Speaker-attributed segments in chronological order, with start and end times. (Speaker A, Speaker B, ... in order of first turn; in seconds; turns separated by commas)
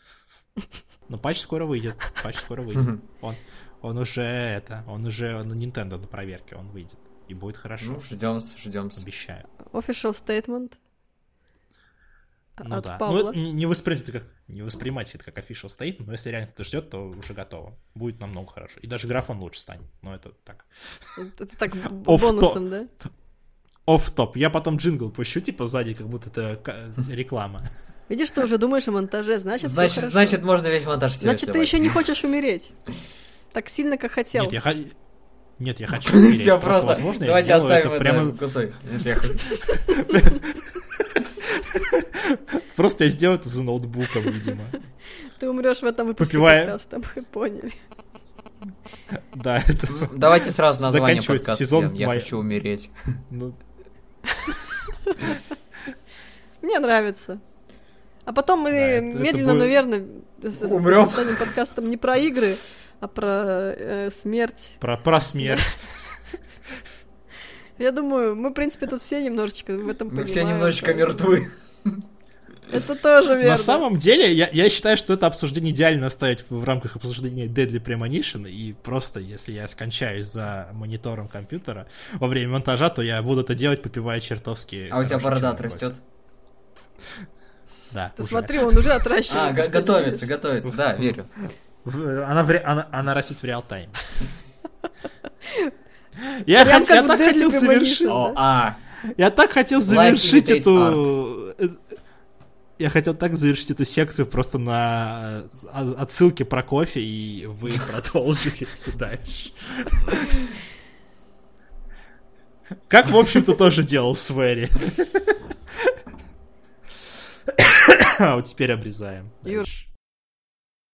Speaker A: 1.1-8.0, Speaker B: 7.8-9.1, Speaker A: 9.0-9.5, Speaker C: 9.7-10.8, Speaker C: 12.6-13.4, Speaker A: 12.6-20.7, Speaker C: 21.2-22.9, Speaker A: 21.8-22.6, Speaker A: 23.9-27.7, Speaker C: 28.1-30.4, Speaker B: 29.6-32.0, Speaker C: 31.2-32.7, Speaker C: 33.5-34.6, Speaker A: 34.4-35.0, Speaker A: 35.6-38.4, Speaker B: 36.0-39.6, Speaker A: 39.7-44.8, Speaker C: 45.3-47.8, Speaker A: 46.2-46.7, Speaker A: 49.1-52.4, Speaker B: 49.9-53.2, Speaker A: 53.3-53.6, Speaker C: 54.3-55.4, Speaker C: 56.6-57.4, Speaker C: 58.3-64.8, Speaker A: 58.7-59.8, Speaker B: 60.6-61.5, Speaker A: 64.8-65.9, Speaker C: 67.8-71.3, Speaker B: 70.1-72.0, Speaker C: 72.7-73.8, Speaker A: 73.4-85.8, Speaker B: 84.9-86.0, Speaker A: 87.9-89.0, Speaker C: 88.2-90.2, Speaker B: 89.3-91.3, Speaker A: 90.7-91.2, Speaker A: 91.8-94.1, Speaker C: 95.5-95.7, Speaker A: 96.3-98.4, Speaker C: 96.6-98.4, Speaker B: 98.3-98.8, Speaker A: 99.2-101.8, Speaker B: 99.9-101.1, Speaker A: 102.8-110.5, Speaker A: 112.9-116.0, Speaker A: 117.5-119.9